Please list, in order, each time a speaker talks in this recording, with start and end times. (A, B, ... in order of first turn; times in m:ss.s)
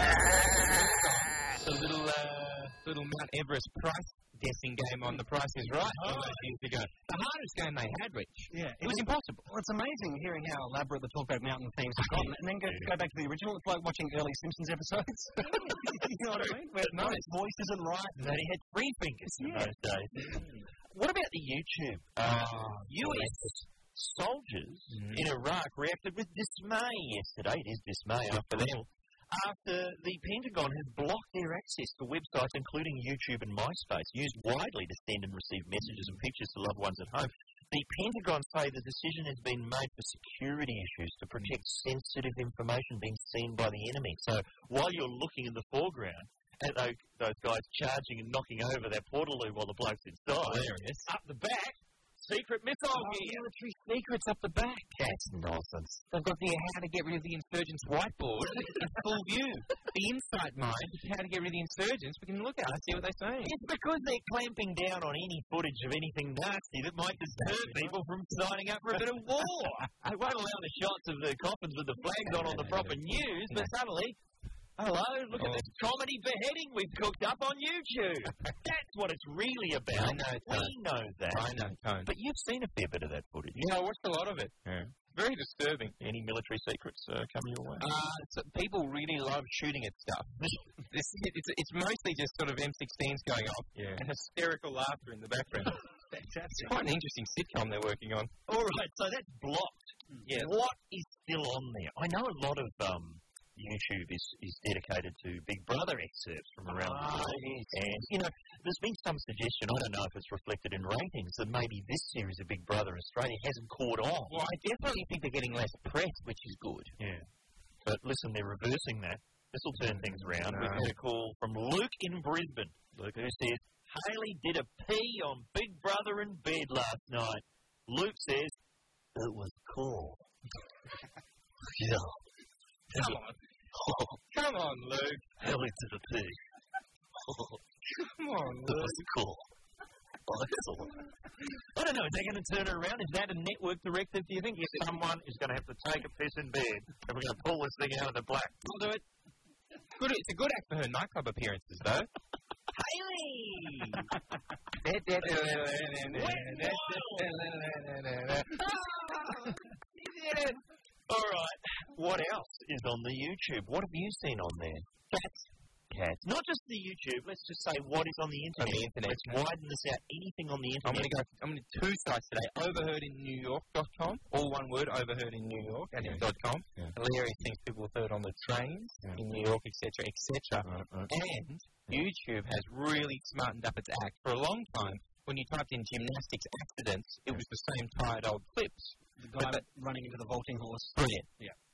0:00.5-0:09.5 A
0:05.9-0:06.4 B
0:08.5-0:18.3 B
0:16.9-0:17.3 A
0:18.2-0:53.5 C
0:19.4-0:19.7 B
0:20.2-0:20.7 A
0:22.2-0:23.4 A
0:24.9-0:25.3 A
0:28.3-0:28.8 A
0:50.4-0:51.1 A
0:52.9-0:55.0 A
0:54.9-0:56.0 C
0:56.1-1:03.6 A
1:03.4-1:14.2 C
1:07.4-1:08.0 A
1:12.5-1:13.0 A
1:14.8-1:23.6 C
1:15.4-1:15.7 A
1:19.9-1:20.8 A
1:21.3-1:22.1 A
1:23.5-1:26.0 A
1:26.0-1:27.9 C
1:27.8-1:30.3 A
1:30.4-1:30.7 C
1:30.9-1:35.8 A
1:36.1-1:36.8 B
1:36.6-1:38.3 A
1:38.5-1:54.4 C
1:40.2-1:40.5 A
1:46.7-1:47.8 A
1:54.3-1:57.0 A
1:57.0-1:57.2 C
1:57.8-2:08.6 C
2:00.0-2:00.9 A
2:09.2-2:10.2 C
2:13.0-2:13.3 A
2:13.7-2:14.2 C
2:14.3-2:15.3 A
2:15.4-2:16.4 C
2:17.3-2:17.6 C
2:18.0-2:19.0 A
2:18.6-2:19.5 C
2:20.3-2:21.0 C
2:21.7-2:28.6 C
2:28.6-2:29.0 A
2:30.0-2:32.1 A
2:32.8-2:34.0 C
2:34.8-2:40.6 A
2:36.0-2:37.3 C
2:41.1-2:44.9 C
2:45.1-2:45.5 A
2:45.9-2:51.1 C
2:48.6-2:49.4 A
2:50.8-3:09.6 A
3:00.7-3:01.1 C
3:09.2-3:11.5 B
3:11.0-3:11.3 A